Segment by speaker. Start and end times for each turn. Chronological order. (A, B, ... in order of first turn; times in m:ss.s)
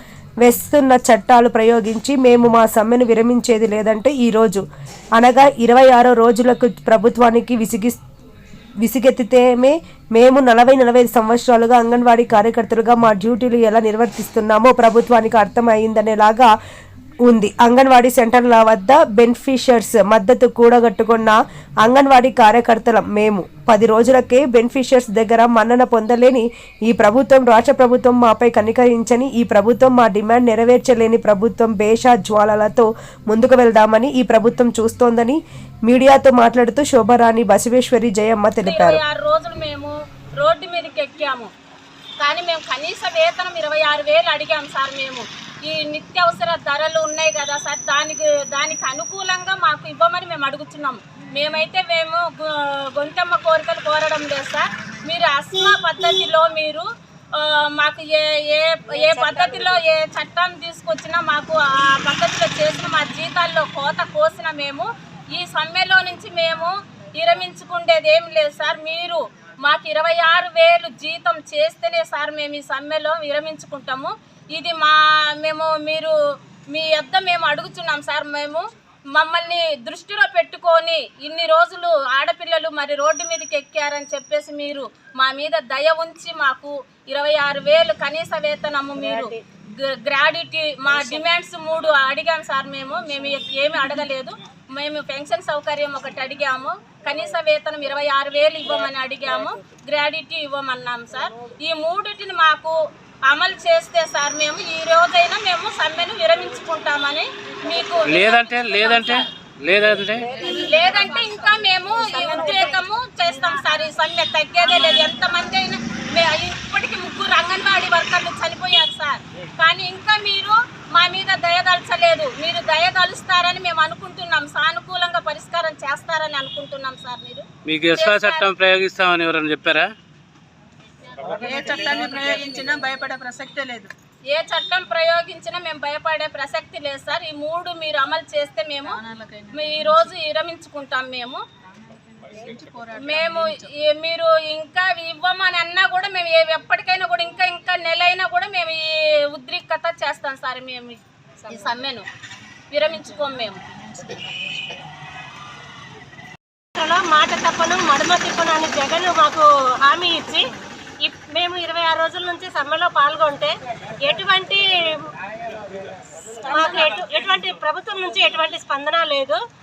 0:00.4-0:04.6 A
0:05.2-0:08.0 A
0:08.8-0:16.5 A
0:17.3-0:39.0 A
0:38.6-0:41.5 B
0:42.2-1:16.1 B
1:16.7-1:49.1 B
1:48.1-1:50.3 C
1:50.2-1:51.3 D
1:50.4-2:08.5 B
1:51.8-1:52.3 D
2:07.7-2:09.9 C
2:11.3-2:13.9 D
2:11.4-2:12.0 B
2:14.3-2:21.4 B
2:18.9-2:19.9 D
2:22.2-2:23.7 D
2:23.0-2:32.0 B
2:32.7-2:33.6 B
2:36.8-2:40.5 E
2:41.0-2:45.1 E
2:46.4-2:49.4 E